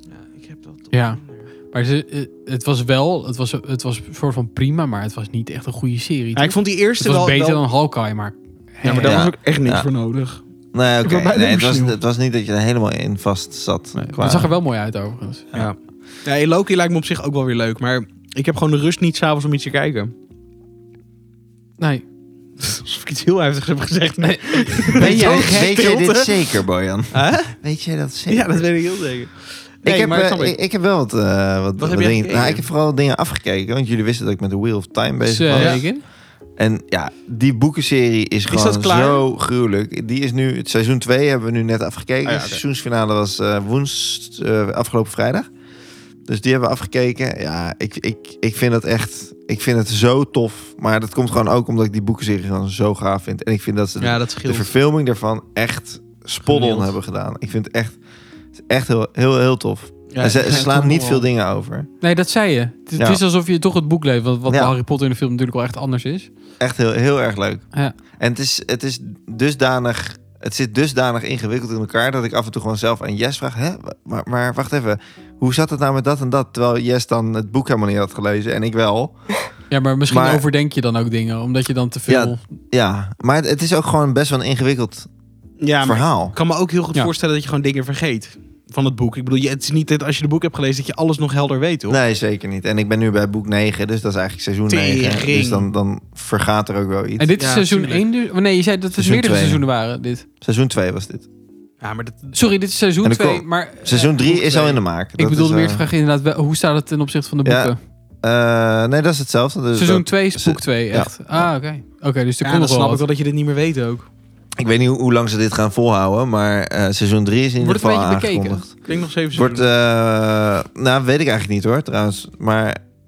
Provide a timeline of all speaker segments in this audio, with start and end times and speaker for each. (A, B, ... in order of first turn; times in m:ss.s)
0:00.1-0:01.4 A
0:00.9-0:01.2 B
0:01.7-0:09.2 B
0:06.4-0:07.6 A
0:08.8-0:10.4 A
0:09.0-0:09.9 C
0:10.7-0:14.5 C
0:11.0-0:12.0 A
0:14.0-0:15.5 B
0:15.5-0:20.1 A
0:21.8-0:22.0 B
0:22.6-0:26.5 A
0:24.2-0:25.7 B
0:25.0-0:28.6 C
0:27.1-0:27.6 A
0:28.3-0:30.6 A
0:29.8-0:36.0 C
0:31.8-0:32.7 A
0:35.2-0:36.0 B
0:35.5-0:35.9 A
0:36.6-0:45.5 C
0:38.5-0:39.2 A
0:42.2-0:42.6 A
0:46.3-0:58.0 C
0:54.0-0:54.7 A
0:56.4-0:56.9 A
0:58.6-1:01.9 C
1:00.1-1:01.2 A
1:02.0-1:06.3 B
1:03.0-1:03.2 C
1:04.5-1:04.7 C
1:06.6-1:07.6 C
1:08.2-1:19.3 C
1:19.7-1:22.4 B
1:20.1-1:20.4 C
1:22.1-1:25.1 C
1:25.6-1:32.0 A
1:25.8-1:26.4 C
1:31.9-1:37.3 C
1:34.7-1:35.7 A
1:37.2-1:40.2 B
1:37.4-1:38.0 A
1:38.9-1:39.6 C
1:40.4-1:41.3 C
1:41.8-1:42.4 A
1:42.3-1:47.8 B
1:43.0-1:45.8 C
1:47.4-1:51.5 C
1:49.7-1:53.0 B
1:52.4-1:54.1 A
1:54.6-1:58.8 C
1:57.6-1:58.8 B
1:58.9-1:59.7 A
1:59.3-2:02.8 C